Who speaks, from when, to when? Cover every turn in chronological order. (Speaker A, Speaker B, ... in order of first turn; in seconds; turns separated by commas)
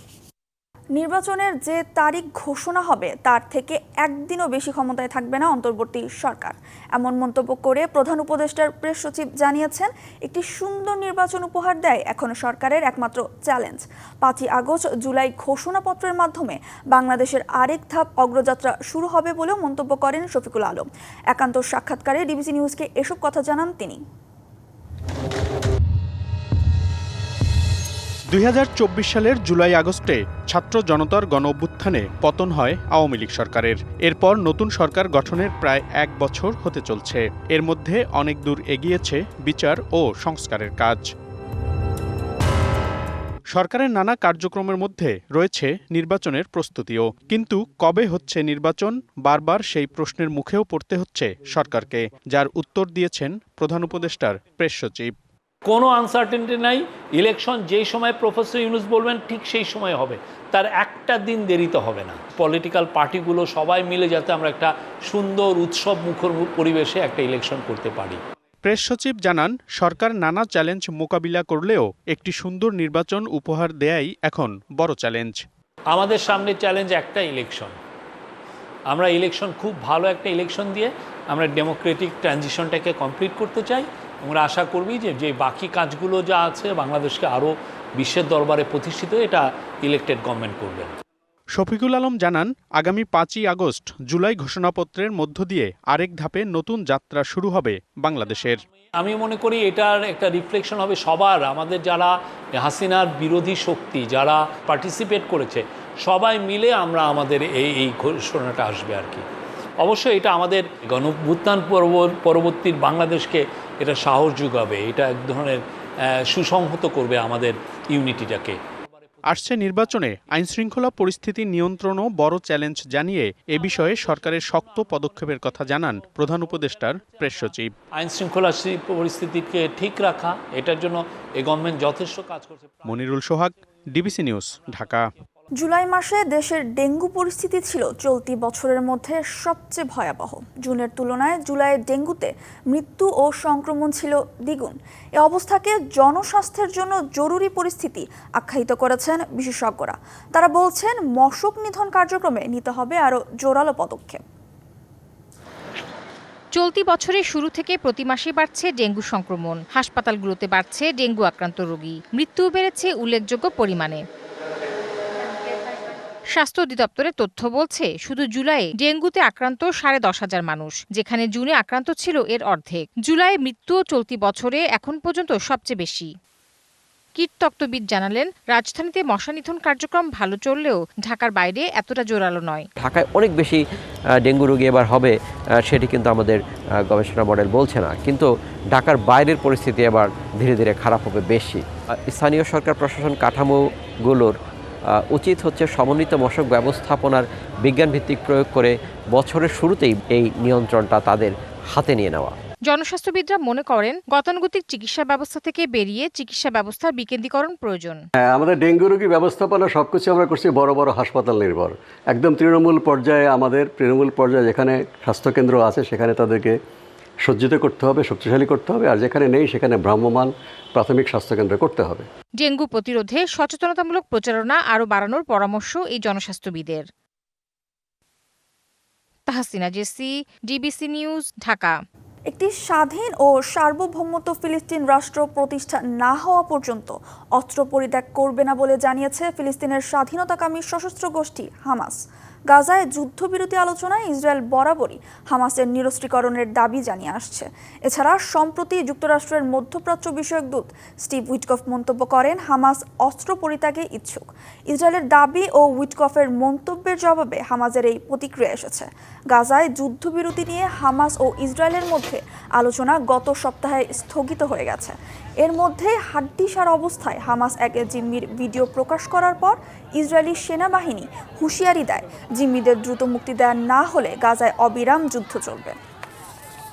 Speaker A: 1.0-24.0, Speaker B: 28.3-41.1, Speaker B: 43.5-55.1, Speaker C: 55.7-68.2, Speaker B: 68.6-75.5, Speaker C: 75.9-77.8, Speaker C: 78.9-91.0, Speaker B: 91.5-98.6, Speaker C: 99.0-109.2, Speaker C: 109.8-115.6, Speaker C: 116.2-118.6, Speaker B: 119.2-127.7, Speaker C: 128.0-132.7, Speaker B: 132.8-135.1, Speaker A: 135.6-154.2, Speaker D: 156.6-164.0, Speaker D: 166.3-176.1, Speaker D: 177.2-182.7, Speaker E: 182.8-183.6, Speaker E: 184.2-194.3, Speaker E: 194.9-202.3, Speaker D: 202.7-208.0, Speaker F: 208.2-216.6, Speaker F: 217.2-222.1, Speaker D: 222.4-226.8, Speaker D: 229.3-231.8, Speaker A: 232.3-242.0, Speaker A: 242.5-275.8